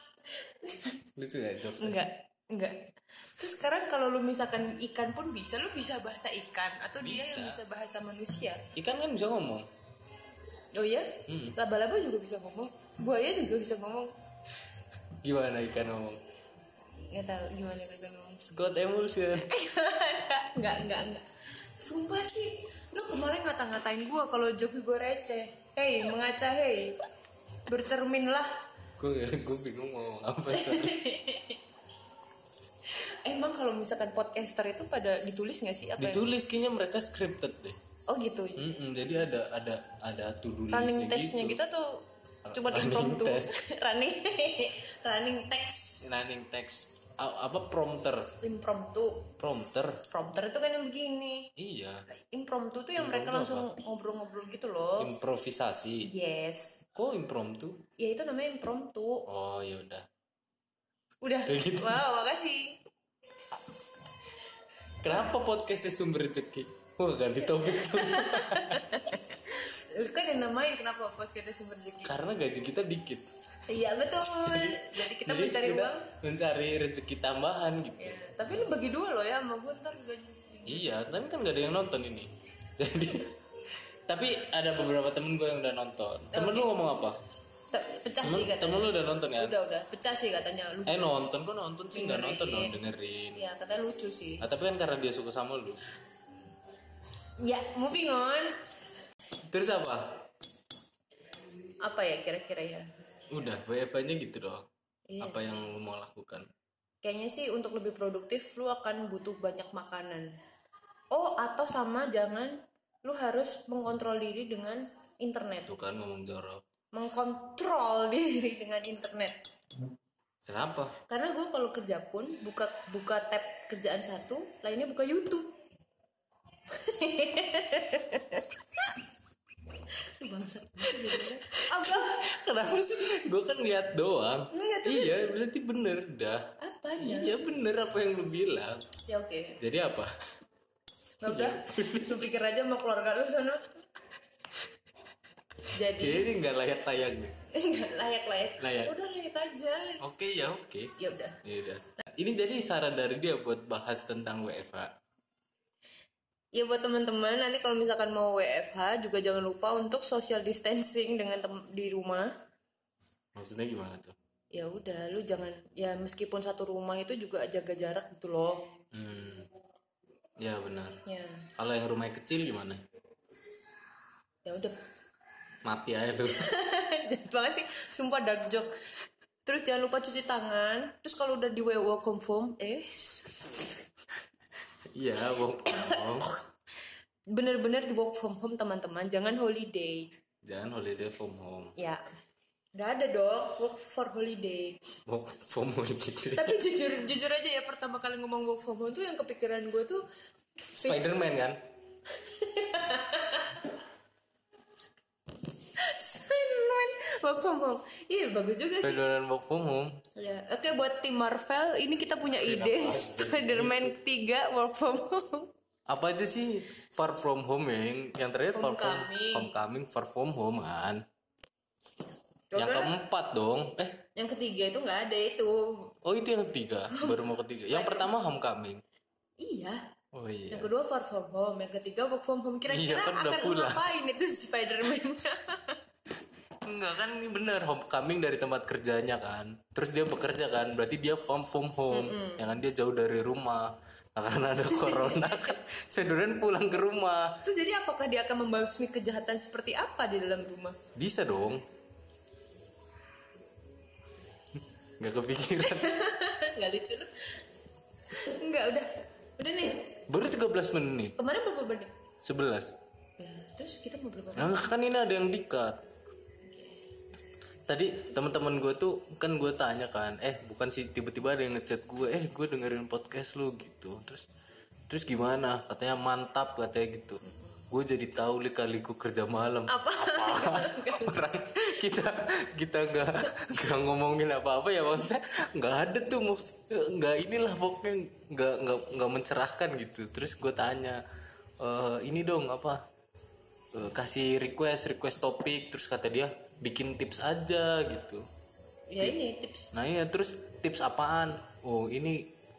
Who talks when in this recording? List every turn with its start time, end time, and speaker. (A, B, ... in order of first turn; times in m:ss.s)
0:00.5-0:01.0 A
0:01.2-0:02.0 B
0:01.8-0:08.6 A
0:07.0-0:07.6 B
0:08.8-0:09.7 B
0:10.7-0:14.1 A
0:11.3-0:11.6 B
0:15.2-0:16.2 B
0:17.1-0:18.5 A
0:18.4-0:19.5 B
0:19.4-0:21.3 A
0:21.8-0:27.0 A
0:27.7-0:28.5 A
0:29.0-0:31.0 B
0:30.5-0:31.6 A
0:32.9-0:36.3 A
0:36.0-0:37.8 B
0:38.1-0:38.7 A
0:38.6-0:41.6 B
0:40.7-0:46.1 A
0:42.4-0:43.6 B
0:46.0-0:48.3 B
0:48.4-0:49.3 A
0:49.4-0:50.0 B
0:50.1-0:51.5 A
0:51.6-0:52.0 B
0:52.3-0:55.1 A
0:53.0-0:53.7 B
0:55.0-0:56.1 B
0:56.0-0:56.8 A
0:57.0-0:57.8 B
0:58.0-0:59.3 A
0:59.3-1:00.1 B
1:01.2-1:02.8 A
1:01.5-1:02.0 B
1:05.0-1:08.8 B
1:07.6-1:12.1 A
1:12.0-1:13.4 B
1:13.7-1:16.1 A
1:14.2-1:18.7 B
1:18.0-1:20.9 A
1:20.7-1:23.4 B
1:24.1-1:27.2 B
1:26.3-1:26.7 A
1:27.7-1:31.2 A
1:28.2-1:29.6 B
1:30.9-1:33.4 B
1:31.9-1:32.8 A
1:33.4-1:34.4 A
1:34.4-1:35.8 B
1:37.4-1:38.6 A
1:39.5-1:40.1 B
1:41.8-1:42.9 A
1:43.3-1:44.7 B
1:45.1-1:45.6 A
1:45.2-1:46.5 B
1:47.0-1:50.4 A
1:51.1-1:55.8 A
1:55.7-1:56.6 B
1:56.9-1:59.4 A
2:00.5-2:01.0 B
2:01.0-2:05.5 A
2:06.7-2:09.0 A
2:09.9-2:12.2 A
2:11.0-2:16.4 B
2:14.5-2:15.2 A
2:16.6-2:17.5 A
2:17.0-2:18.9 B
2:19.1-2:19.6 A
2:19.6-2:20.1 B
2:21.2-2:23.8 A
2:21.2-2:22.3 B
2:25.7-2:26.3 A
2:25.9-2:27.4 B
2:27.5-2:30.0 A
2:28.6-2:28.9 B
2:30.0-2:34.9 B
2:31.0-2:31.4 A
2:36.5-2:42.3 A
2:43.4-2:44.2 B
2:44.5-2:48.7 A
2:48.9-2:49.5 B
2:50.4-2:51.0 B
2:51.1-2:51.5 A
2:51.6-2:52.8 B
2:54.5-2:54.8 A
2:55.6-2:56.5 B
2:56.3-2:58.7 A
2:59.5-3:03.7 A
3:04.9-3:06.3 B
3:05.6-3:06.4 A
3:07.3-3:10.1 A
3:10.4-3:11.8 B
3:11.8-3:12.0 A
3:12.8-3:14.8 A
3:15.1-3:16.6 B
3:16.4-3:20.0 A
3:20.7-3:21.0 A
3:20.8-3:21.6 B
3:22.1-3:23.8 A
3:25.8-3:29.0 A
3:28.8-3:30.0 B
3:30.2-3:35.5 A
3:32.3-3:34.0 B
3:35.9-3:41.0 B
3:38.5-3:39.5 A
3:42.5-3:42.9 A
3:42.6-3:44.0 B
3:44.2-3:45.9 A
3:46.0-3:48.8 B
3:46.9-3:48.1 A
3:49.4-3:49.9 A
3:50.1-3:50.7 B
3:50.5-3:55.8 A
3:52.7-3:53.9 B
3:56.6-4:07.4 B
4:01.9-4:02.4 A
4:04.7-4:05.6 A
4:07.4-4:10.8 A
4:11.0-4:11.6 B
4:15.0-4:16.0 B
4:15.6-4:17.4 A
4:18.1-4:19.9 A
4:20.1-4:21.2 B
4:21.2-4:21.9 A
4:22.2-4:22.7 B
4:23.2-4:24.8 A
4:24.4-4:25.8 B
4:26.4-4:26.8 A
4:27.7-4:34.3 B
4:34.9-4:51.0 B
4:37.3-4:37.6 A
4:39.7-4:41.6 A
4:51.6-4:52.8 B
4:53.7-4:58.3 B
4:58.9-4:59.8 A
4:59.7-5:02.3 B